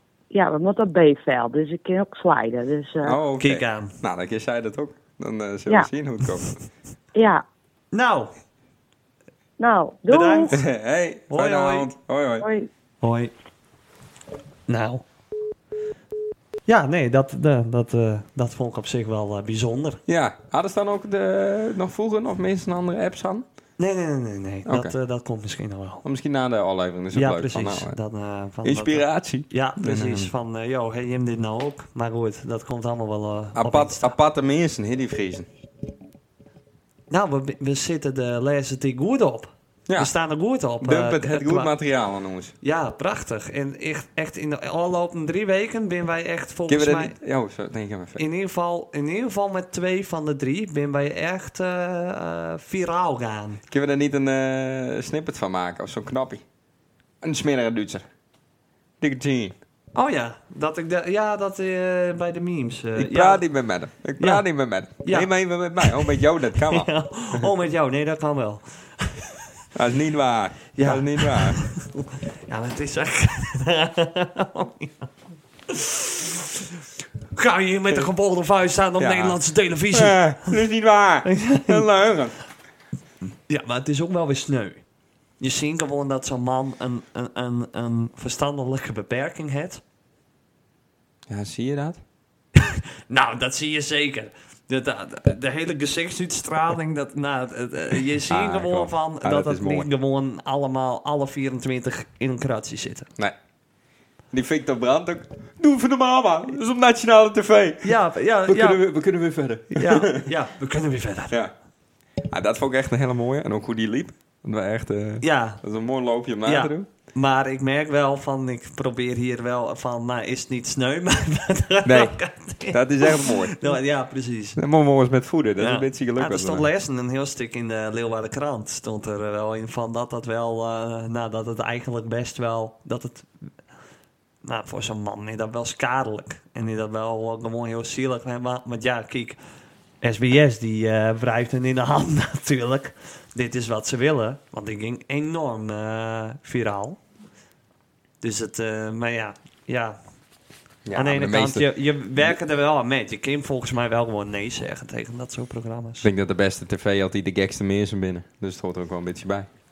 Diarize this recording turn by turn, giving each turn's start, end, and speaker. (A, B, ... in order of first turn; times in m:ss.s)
0:00.3-0:03.2 A
0:03.0-0:06.6 B
0:03.4-0:04.0 C
0:07.2-0:07.4 A
0:07.9-0:08.3 C
0:09.6-0:10.6 A
0:10.1-0:10.6 C
0:10.5-0:12.5 B
0:11.3-0:11.9 C
0:12.4-0:12.7 A
0:13.0-0:13.3 C
0:14.7-0:15.0 C
0:16.7-0:20.0 C
0:20.1-0:23.4 B
0:23.8-0:26.0 C
0:24.7-0:24.9 B
0:26.0-0:28.0 B
0:27.1-0:34.1 C
0:28.6-0:30.3 B
0:33.6-0:35.5 B
0:37.1-0:41.7 C
0:39.9-0:40.1 B
0:40.8-0:42.5 B
0:42.6-0:47.2 C
0:46.7-0:48.2 B
0:48.2-0:53.6 C
0:53.7-0:56.4 B
0:57.2-0:58.1 B
0:59.0-0:59.6 B
1:00.0-1:03.4 C
1:03.0-1:07.5 B
1:04.2-1:04.4 C
1:05.0-1:06.0 C
1:06.6-1:09.4 C
1:09.8-1:11.6 B
1:10.8-1:15.1 C
1:15.7-1:16.6 C
1:17.4-1:20.6 C
1:19.0-1:22.4 B
1:21.2-1:21.8 C
1:23.5-1:24.8 C
1:25.4-1:29.8 C
1:31.3-1:32.0 B
1:32.6-1:43.1 C
1:38.3-1:39.9 B
1:44.3-1:48.0 B
1:47.8-1:48.8 C
1:48.5-1:50.3 B
1:49.7-1:51.4 C
1:52.3-1:56.9 B
1:55.2-1:55.6 C
1:56.4-2:04.6 C
2:01.8-2:02.2 B
2:02.7-2:03.7 B
2:04.6-2:06.7 B
2:05.6-2:13.5 C
2:14.4-2:19.4 C
2:20.0-2:27.0 C
2:28.2-2:30.0 C
2:30.9-2:32.4 B
2:31.0-2:36.1 C
2:36.0-2:39.5 B